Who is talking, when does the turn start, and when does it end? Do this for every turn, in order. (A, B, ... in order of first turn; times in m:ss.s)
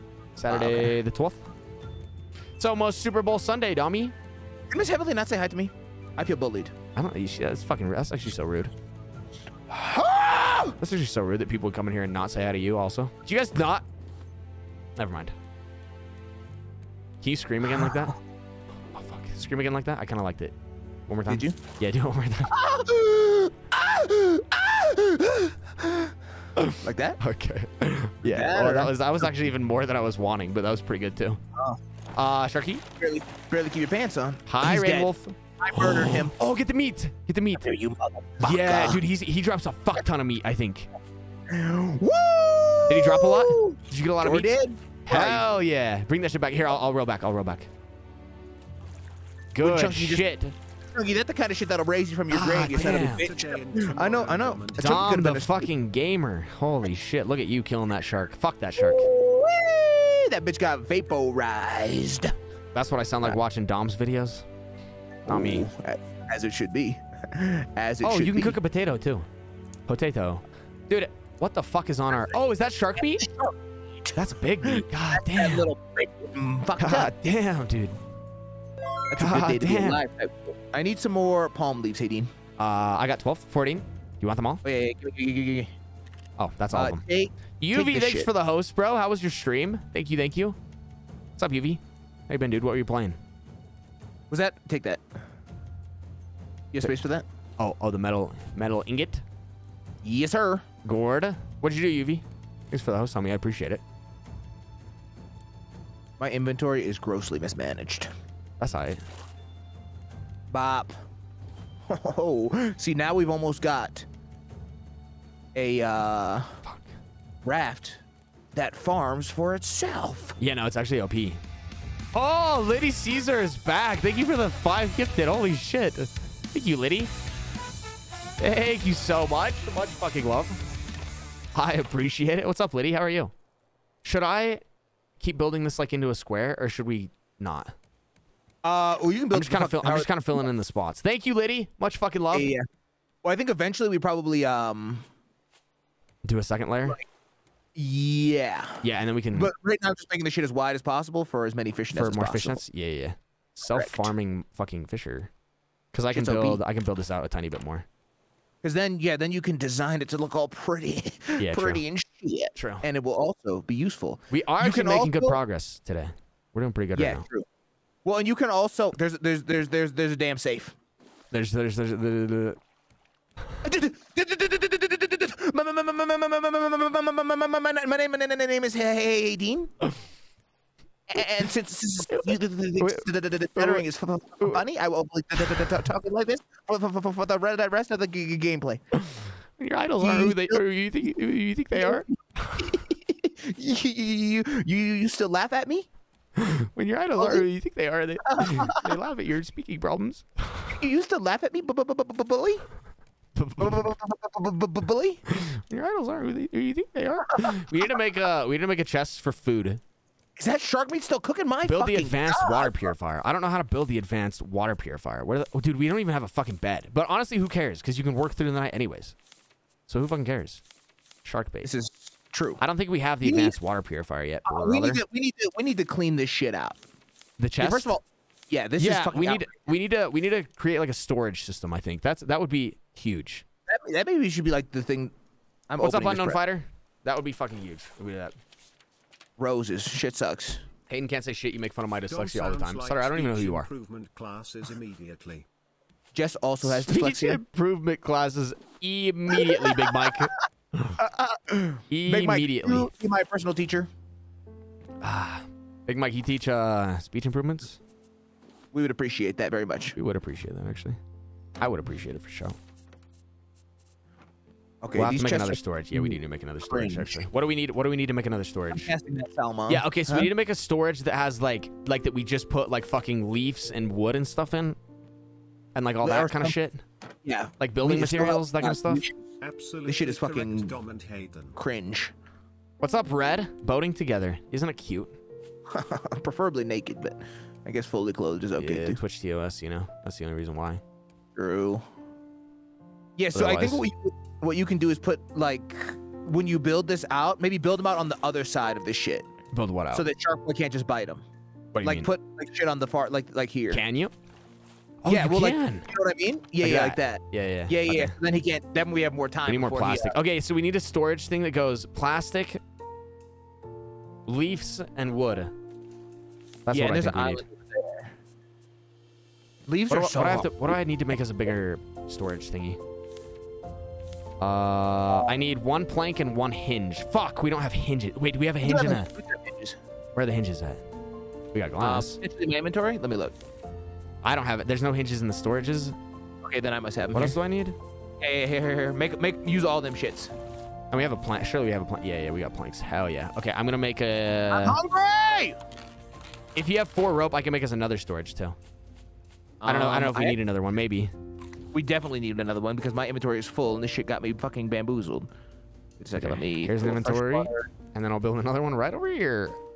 0:00.4-0:01.4 A
0:00.5-0:00.9 B
0:02.6-0:04.1 A
0:04.7-0:06.7 B
0:07.0-0:08.7 A
0:09.7-0:10.8 B
0:10.8-0:13.9 A
0:15.0-0:15.3 A
0:17.2-0:18.2 A
0:17.8-0:18.0 B
0:18.9-0:20.6 A
0:21.1-0:22.6 A
0:21.3-0:21.6 B
0:22.5-0:26.2 B
0:26.6-0:31.4 A
0:26.8-0:27.2 B
0:28.2-0:28.9 B
0:32.1-0:32.8 A
0:33.0-0:36.3 B
0:34.5-0:37.7 A
0:37.6-0:39.0 B
0:38.4-0:40.9 A
0:41.5-0:45.4 B
0:42.9-0:47.7 A
0:49.5-0:50.5 A
0:49.6-0:50.3 B
0:50.9-0:55.7 B
0:52.3-0:53.3 A
0:52.7-0:55.2 C
0:54.8-0:59.1 A
0:58.8-1:02.3 B
1:02.7-1:04.4 A
1:05.3-1:08.6 B
1:05.3-1:05.7 A
1:08.0-1:09.3 A
1:09.9-1:13.2 A
1:13.0-1:17.1 B
1:14.1-1:15.7 A
1:16.8-1:18.0 A
1:19.1-1:22.3 B
1:19.2-1:20.0 A
1:22.6-1:24.6 A
1:24.6-1:25.7 B
1:26.4-1:27.0 A
1:26.7-1:28.3 B
1:27.6-1:30.6 A
1:31.4-1:33.2 A
1:34.3-1:35.2 B
1:36.7-1:37.3 B
1:37.6-1:39.2 A
1:40.0-1:40.6 B
1:40.8-1:43.8 A
1:46.2-1:48.1 B
1:48.6-1:49.0 A
1:50.5-1:51.0 B
1:51.9-1:54.1 B
1:55.6-1:56.6 B
1:56.6-1:56.9 A
1:57.4-1:58.0 B
1:58.5-2:00.4 B
2:00.4-2:01.4 A
2:02.1-2:07.1 A
2:08.4-2:10.6 A
2:11.6-2:13.3 A
2:14.0-2:14.6 A
2:15.2-2:17.7 A
2:18.6-2:20.1 B
2:19.3-2:22.5 A
2:22.3-2:22.7 B
2:23.2-2:25.1 B
2:26.2-2:27.0 A
2:27.7-2:32.6 B
2:28.8-2:29.5 A
2:31.9-2:35.3 A
2:33.6-2:34.1 B
2:35.9-2:37.9 A
2:36.1-2:36.6 B
2:38.6-2:45.4 B
2:41.4-2:41.8 A
2:42.6-2:42.9 A
2:44.3-2:47.2 A
2:47.0-2:47.5 B
2:48.0-2:50.7 B
2:51.3-2:52.6 A
2:53.6-2:59.7 B
3:01.1-3:08.8 B
3:02.0-3:03.8 A
3:09.0-3:12.7 A
3:10.0-3:10.6 B
3:11.8-3:12.0 B
3:12.6-3:15.9 B
3:16.4-3:20.8 A
3:17.2-3:17.4 B
3:18.3-3:18.9 B
3:20.8-3:22.6 B
3:23.3-3:23.9 A
3:23.6-3:25.2 B
3:25.3-3:29.8 A
3:30.4-3:32.9 B
3:31.7-3:39.2 A
3:39.9-3:40.6 A
3:41.2-3:41.7 A
3:41.6-3:42.6 B
3:42.6-3:45.0 A
3:43.2-3:43.6 B
3:44.4-3:46.8 B
3:47.4-3:48.0 A
3:47.6-3:49.5 B
3:48.8-3:53.4 A
3:53.7-3:55.1 B
3:55.7-3:56.4 B
3:55.8-3:58.4 A
3:59.4-4:00.6 B
4:00.9-4:03.7 A
4:02.1-4:05.4 C
4:06.1-4:07.4 B
4:06.6-4:11.0 A
4:09.3-4:10.3 B
4:11.0-4:13.9 B
4:11.9-4:12.9 A
4:15.0-4:17.8 A
4:18.7-4:20.0 B
4:20.0-4:21.0 A
4:21.6-4:22.6 A
4:24.8-4:27.2 B
4:25.0-4:28.9 A
4:28.7-4:30.3 B
4:29.7-4:34.8 A
4:35.7-4:36.8 A
4:36.0-4:36.6 B
4:37.2-4:39.2 B
4:37.6-4:39.0 A
4:39.4-4:41.6 C
4:39.9-4:40.7 B
4:41.6-4:42.1 B
4:42.8-4:45.2 A
4:45.7-4:49.0 B
4:48.6-4:50.8 A
4:51.4-4:51.8 B
4:53.2-4:59.3 B
4:53.3-4:53.9 A
4:59.5-5:00.1 A
4:59.9-5:01.2 B
5:01.7-5:02.1 A
5:01.8-5:03.8 B
5:03.7-5:04.1 A
5:05.0-5:05.9 A
5:05.1-5:10.2 B
5:06.6-5:08.1 A
5:09.4-5:12.6 A
5:14.3-5:15.5 A
5:16.7-5:17.4 A
5:16.7-5:18.1 B
5:19.7-5:20.5 B
5:19.9-5:22.8 A
5:24.4-5:29.1 A
5:28.6-5:29.8 B
5:30.2-5:30.8 A
5:31.5-5:32.2 A
5:31.8-5:33.3 B
5:34.2-5:36.0 A
5:36.4-5:37.4 B
5:37.1-5:37.8 A
5:38.2-5:40.3 B
5:40.9-5:44.8 A
5:44.5-5:45.6 B
5:46.6-5:48.6 A
5:49.6-5:50.4 B
5:49.7-5:51.1 A
5:51.7-5:55.3 B
5:56.0-5:57.7 B
5:56.1-5:59.6 A